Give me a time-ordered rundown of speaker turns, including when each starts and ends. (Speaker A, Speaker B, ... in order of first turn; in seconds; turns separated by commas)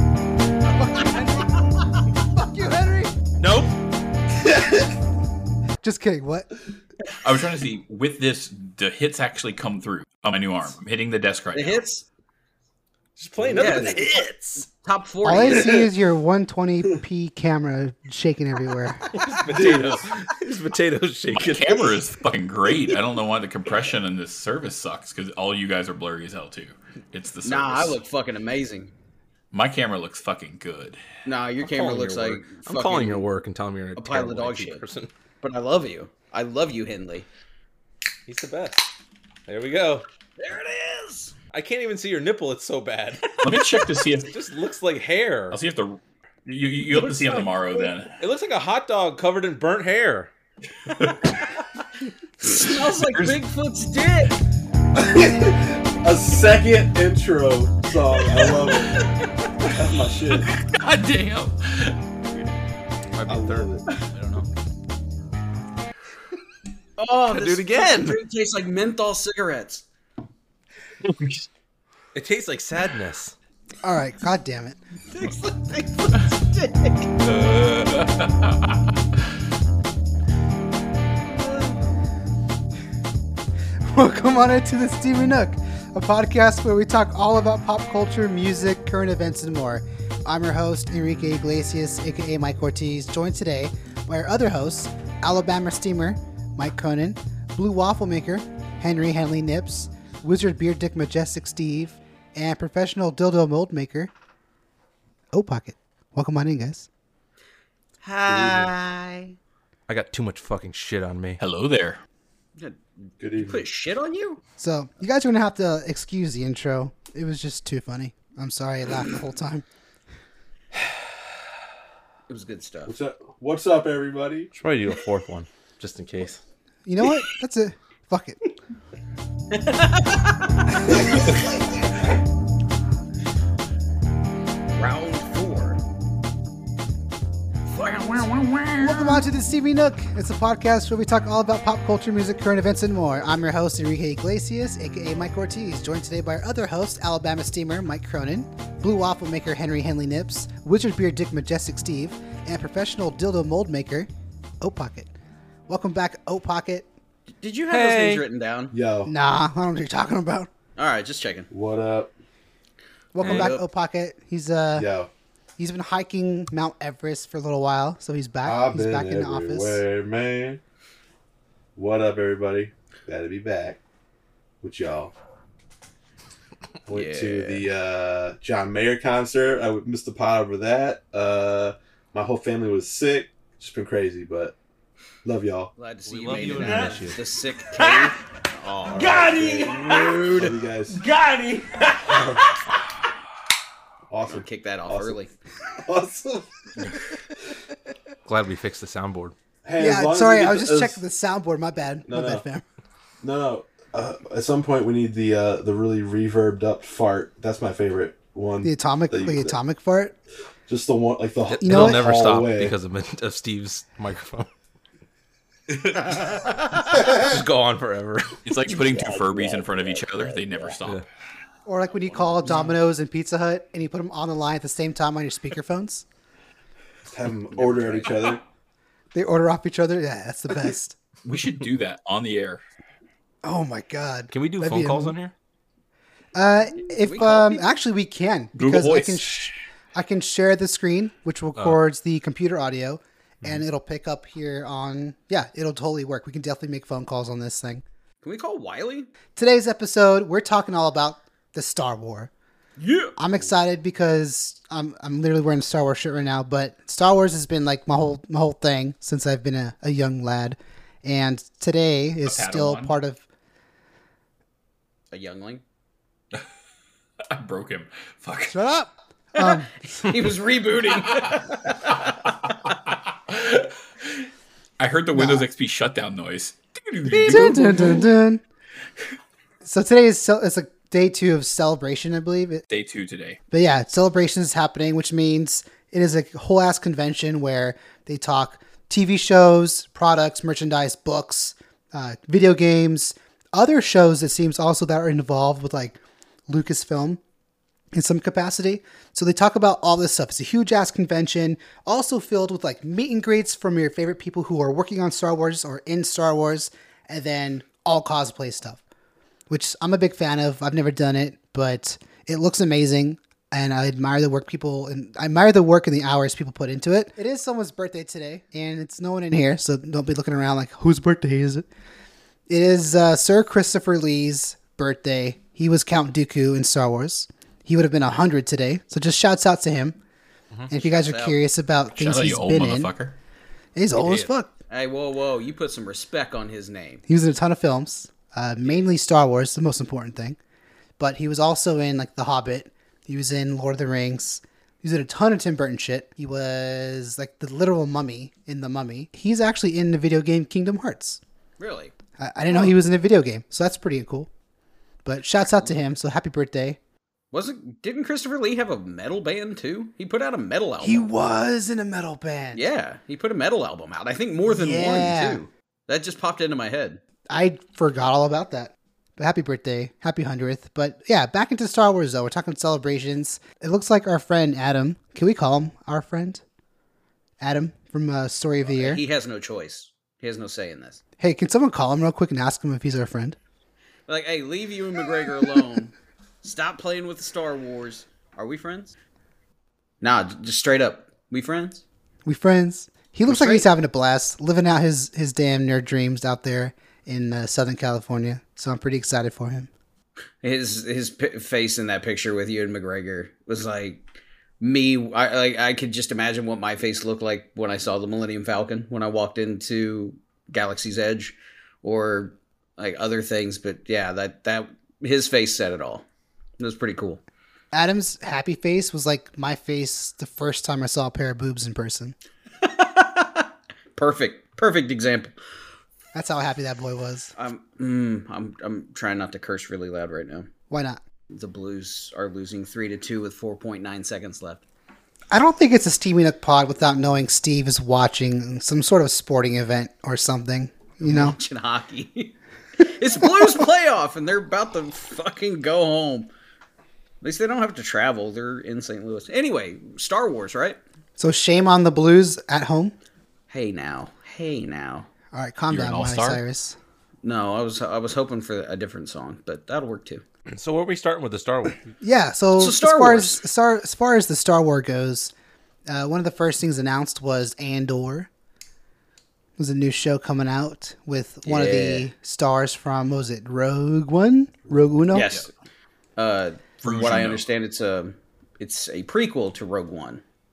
Speaker A: 0.7-1.7, Speaker A: 2.3-3.1, Speaker B: 3.4-3.7, Speaker C: 4.4-4.8, Speaker A: 5.8-6.5, Speaker D: 7.2-11.8, Speaker E: 11.5-12.1, Speaker B: 13.2-14.7, Speaker C: 13.4-14.1, Speaker E: 13.6-15.9, Speaker A: 15.2-19.1, Speaker B: 19.1-22.0, Speaker C: 19.5-20.1, Speaker D: 21.3-28.0, Speaker E: 27.4-28.9, Speaker D: 29.5-31.0, Speaker E: 31.2-33.2, Speaker B: 31.6-35.1, Speaker E: 34.0-34.8, Speaker E: 35.4-37.3, Speaker B: 38.3-38.9, Speaker B: 39.5-40.1, Speaker E: 40.4-41.4, Speaker B: 41.5-43.6, Speaker D: 43.4-44.4, Speaker B: 44.3-45.6, Speaker D: 45.5-48.1, Speaker B: 46.9-47.5, Speaker B: 48.2-50.3, Speaker D: 50.9-51.4, Speaker E: 52.4-54.3, Speaker C: 55.0-59.1, Speaker C: 59.6-60.6, Speaker D: 60.5-62.0, Speaker B: 63.1-63.7, Speaker C: 63.3-63.8, Speaker E: 64.1-64.5, Speaker E: 67.0-69.8, Speaker B: 67.3-68.2, Speaker D: 71.2-71.4, Speaker B: 72.2-73.3, Speaker A: 73.8-74.8, Speaker E: 75.1-77.1, Speaker D: 77.2-78.9, Speaker E: 81.3-81.9, Speaker A: 83.8-104.1, Speaker A: 105.3-106.9, Speaker E: 108.0-109.3, Speaker C: 108.3-108.7, Speaker B: 109.9-111.4, Speaker D: 111.4-112.0, Speaker C: 113.2-113.7, Speaker E: 113.3-114.4, Speaker A: 114.6-119.7, Speaker E: 122.3-122.9, Speaker C: 122.9-124.5, Speaker B: 124.5-126.4, Speaker A: 126.8-128.4, Speaker E: 129.5-131.4, Speaker E: 134.8-135.8, Speaker E: 137.7-139.2, Speaker A: 138.8-154.1, Speaker A: 154.6-155.1, Speaker A: 155.7-156.9, Speaker E: 157.4-158.7, Speaker B: 157.7-158.2, Speaker C: 158.7-159.1, Speaker A: 159.1-160.5, Speaker E: 160.8-161.5, Speaker C: 161.5-162.1, Speaker A: 163.2-164.9, Speaker B: 163.2-163.5, Speaker E: 163.2-163.6, Speaker C: 164.8-165.1, Speaker A: 165.6-169.8, Speaker C: 168.4-170.6, Speaker C: 171.8-173.8, Speaker C: 174.6-175.1, Speaker C: 176.9-184.6, Speaker E: 176.9-177.7, Speaker C: 185.2-185.7, Speaker E: 185.8-190.6, Speaker B: 186.1-187.2, Speaker C: 188.9-191.0, Speaker B: 191.2-191.7, Speaker C: 192.1-192.5, Speaker C: 194.1-196.5, Speaker E: 194.3-195.3, Speaker B: 198.2-199.3, Speaker C: 199.7-201.0, Speaker A: 199.8-202.6, Speaker C: 202.1-202.4, Speaker C: 203.2-209.5, Speaker A: 208.6-210.2, Speaker C: 210.7-212.8, Speaker B: 211.5-214.5, Speaker A: 211.6-212.0, Speaker B: 215.9-218.4, Speaker C: 217.0-217.4, Speaker D: 218.4-221.0, Speaker C: 218.9-220.0, Speaker A: 221.7-226.1, Speaker C: 227.1-228.4, Speaker E: 227.5-228.2, Speaker A: 229.1-231.0, Speaker D: 231.2-232.6, Speaker A: 233.4-235.2, Speaker B: 234.3-235.3, Speaker A: 236.3-247.8, Speaker E: 236.8-237.8, Speaker D: 238.6-239.5, Speaker E: 248.2-249.1, Speaker A: 249.4-252.3, Speaker E: 252.8-253.1, Speaker A: 253.2-263.2, Speaker D: 262.3-263.0, Speaker E: 265.1-265.6, Speaker D: 267.3-268.6, Speaker A: 268.5-269.7, Speaker E: 269.4-272.2, Speaker D: 271.2-274.2, Speaker D: 274.8-278.1, Speaker A: 275.1-275.5, Speaker A: 277.1-278.4, Speaker E: 277.3-277.8, Speaker A: 279.6-282.6, Speaker D: 282.7-283.4, Speaker A: 283.5-297.2, Speaker A: 297.9-308.8, Speaker A: 309.5-321.6, Speaker A: 322.5-330.0, Speaker A: 330.7-332.9, Speaker E: 330.7-331.4, Speaker D: 332.0-333.2, Speaker A: 333.8-334.5, Speaker B: 334.0-334.3, Speaker E: 334.7-337.0, Speaker A: 337.1-340.4, Speaker A: 341.0-351.2, Speaker E: 351.6-351.9, Speaker A: 352.2-354.3, Speaker A: 355.1-356.8, Speaker E: 355.4-355.8, Speaker E: 357.3-361.1, Speaker A: 360.8-362.6, Speaker E: 362.5-367.0, Speaker A: 364.5-365.4, Speaker A: 367.3-376.4, Speaker A: 377.4-379.0, Speaker E: 378.7-381.0, Speaker A: 381.2-383.4, Speaker E: 384.1-388.9, Speaker E: 390.0-391.8, Speaker A: 392.2-399.7, Speaker E: 393.3-393.7, Speaker E: 400.4-404.0, Speaker E: 404.6-416.0, Speaker E: 416.6-417.2, Speaker A: 417.7-422.2, Speaker E: 422.6-425.3, Speaker A: 426.1-427.3, Speaker E: 427.4-430.5, Speaker A: 430.7-431.0, Speaker E: 431.3-434.6, Speaker A: 435.3-441.4, Speaker E: 441.1-446.3, Speaker E: 447.2-450.8, Speaker A: 451.2-453.0, Speaker E: 453.5-455.1, Speaker A: 455.3-456.8, Speaker D: 455.7-456.4, Speaker E: 457.2-460.2, Speaker B: 460.5-461.8, Speaker A: 462.0-465.3, Speaker E: 462.6-463.4, Speaker A: 465.9-468.3, Speaker A: 469.6-475.3, Speaker E: 471.5-472.1, Speaker E: 475.1-475.5, Speaker E: 476.2-480.2, Speaker D: 476.8-477.4